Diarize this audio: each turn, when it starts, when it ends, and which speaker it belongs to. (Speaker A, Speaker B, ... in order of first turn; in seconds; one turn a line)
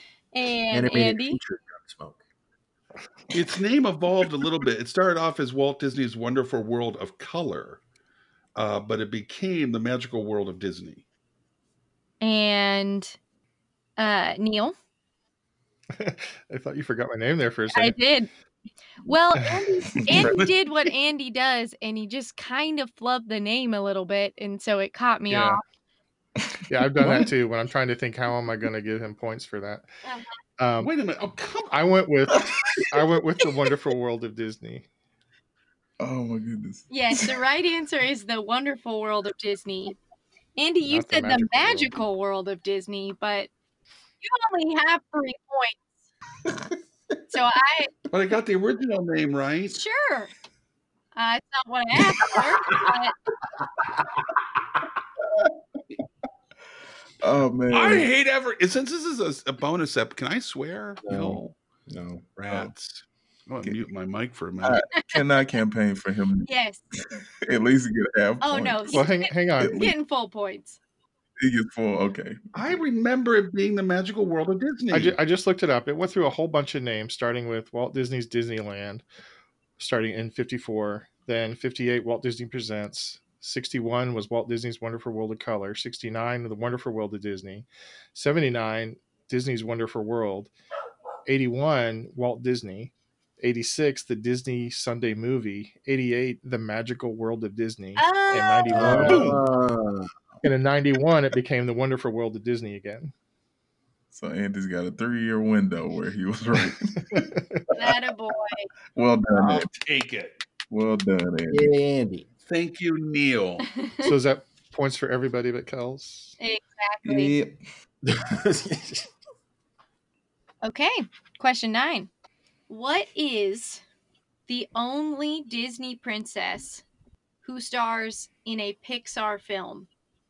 Speaker A: 0.3-1.4
Speaker B: 0.7-2.2
Speaker C: 3.3-7.8
Speaker C: 8.6-11.0
Speaker A: 12.2-13.2
Speaker A: 14.0-14.7
Speaker D: 15.9-18.0
Speaker A: 17.7-18.3
Speaker A: 19.0-25.6
Speaker E: 20.0-20.4
Speaker C: 20.1-20.5
Speaker D: 25.3-25.6
Speaker D: 26.7-29.9
Speaker E: 27.0-27.3
Speaker D: 30.6-30.9
Speaker C: 30.8-31.8
Speaker D: 31.7-34.9
Speaker E: 36.0-37.3
Speaker A: 36.9-40.0
Speaker A: 40.6-43.5
Speaker D: 40.9-41.9
Speaker A: 44.2-45.8
Speaker A: 47.3-47.9
Speaker C: 48.1-49.8
Speaker A: 49.7-50.3
Speaker A: 51.1-53.1
Speaker E: 57.2-58.1
Speaker C: 57.7-61.5
Speaker B: 61.0-62.3
Speaker C: 62.4-64.8
Speaker E: 64.6-66.5
Speaker A: 66.5-66.8
Speaker E: 67.2-69.0
Speaker A: 68.4-70.8
Speaker D: 68.9-69.9
Speaker E: 69.6-69.9
Speaker E: 71.4-72.4
Speaker C: 72.5-75.2
Speaker D: 74.9-79.0
Speaker D: 79.8-90.5
Speaker D: 91.2-99.4
Speaker A: 98.0-99.1
Speaker B: 98.7-100.1
Speaker C: 99.0-99.4
Speaker D: 100.4-103.1
Speaker E: 104.1-107.9
Speaker D: 107.1-107.6
Speaker A: 107.7-108.7
Speaker E: 108.9-109.7
Speaker C: 109.3-110.4
Speaker E: 110.7-111.7
Speaker B: 111.5-112.2
Speaker C: 112.5-113.7
Speaker A: 113.8-114.1
Speaker D: 114.0-116.4
Speaker A: 116.4-117.3
Speaker E: 117.0-117.6
Speaker B: 118.0-119.1
Speaker A: 120.6-122.1
Speaker A: 122.7-123.8
Speaker A: 124.5-126.8
Speaker A: 127.4-129.9